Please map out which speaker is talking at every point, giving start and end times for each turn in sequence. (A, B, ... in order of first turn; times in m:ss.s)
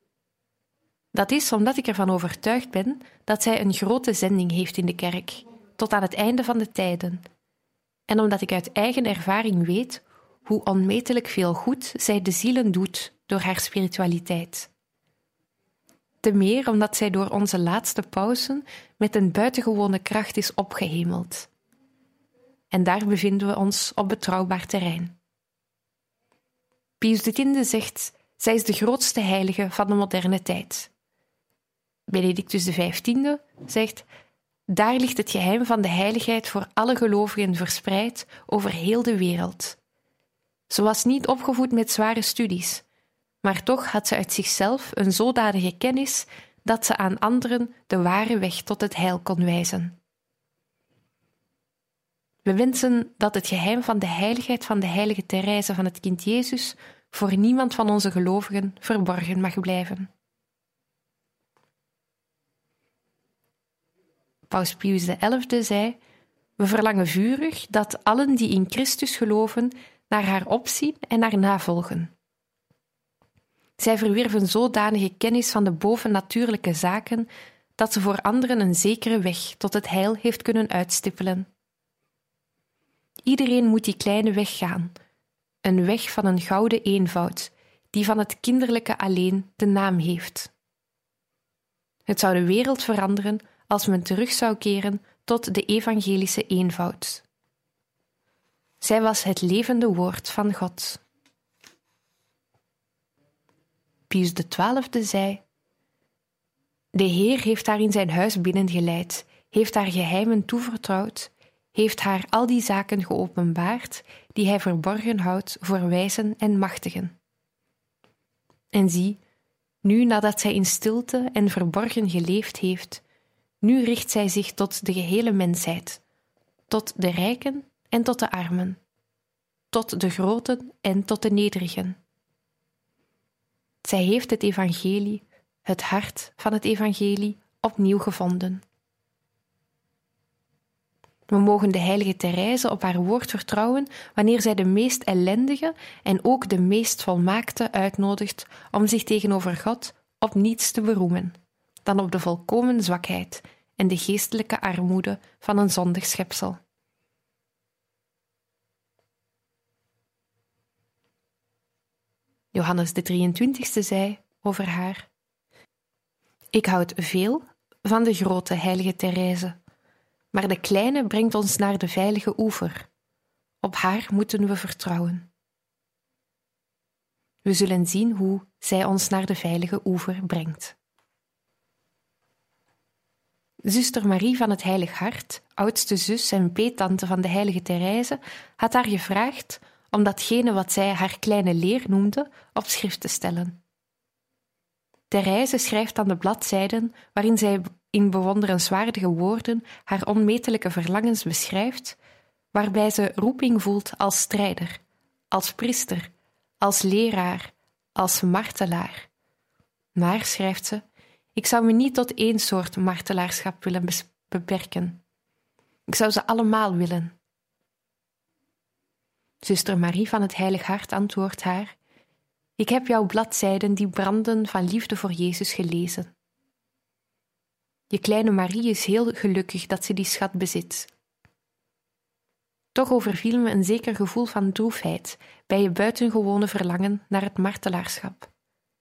0:01.1-0:07.2 A
0:08.1-0:14.7 A
0:16.2-0:21.5 A
0:22.7-0:25.2 A
0:27.0-0:30.9 A
0:32.1-0:34.0 A
0:34.7-0:39.8 A
0:40.7-0:42.8 A
0:43.4-0:50.0 A
0:52.4-1:00.1 A
1:04.5-1:06.0 A
1:06.6-1:12.1 A
1:13.8-1:21.5 A
1:23.2-1:24.9 A
1:25.6-1:30.5 A
1:32.1-1:37.2 A
1:38.8-1:41.0 A
1:44.1-1:45.4 A
1:46.9-1:57.2 A
1:58.7-1:59.2 A
1:59.8-2:03.0 A
2:03.6-2:06.0 A
2:06.7-2:08.8 A
2:09.7-2:12.0 A
2:13.8-2:18.6 A
2:21.3-2:36.6 A
2:42.5-2:45.1 A
2:46.5-2:49.6 A
2:50.3-2:52.9 A
2:53.6-2:55.3 A
2:57.4-3:00.8 A
3:03.6-3:13.6 A
3:15.1-3:22.0 A
3:22.5-3:29.1 A
3:29.9-3:30.8 A
3:31.3-3:35.0 A
3:35.9-3:37.1 A
3:39.4-3:41.8 A
3:42.6-3:46.1 A
3:47.9-3:50.9 A
3:52.7-3:58.3 A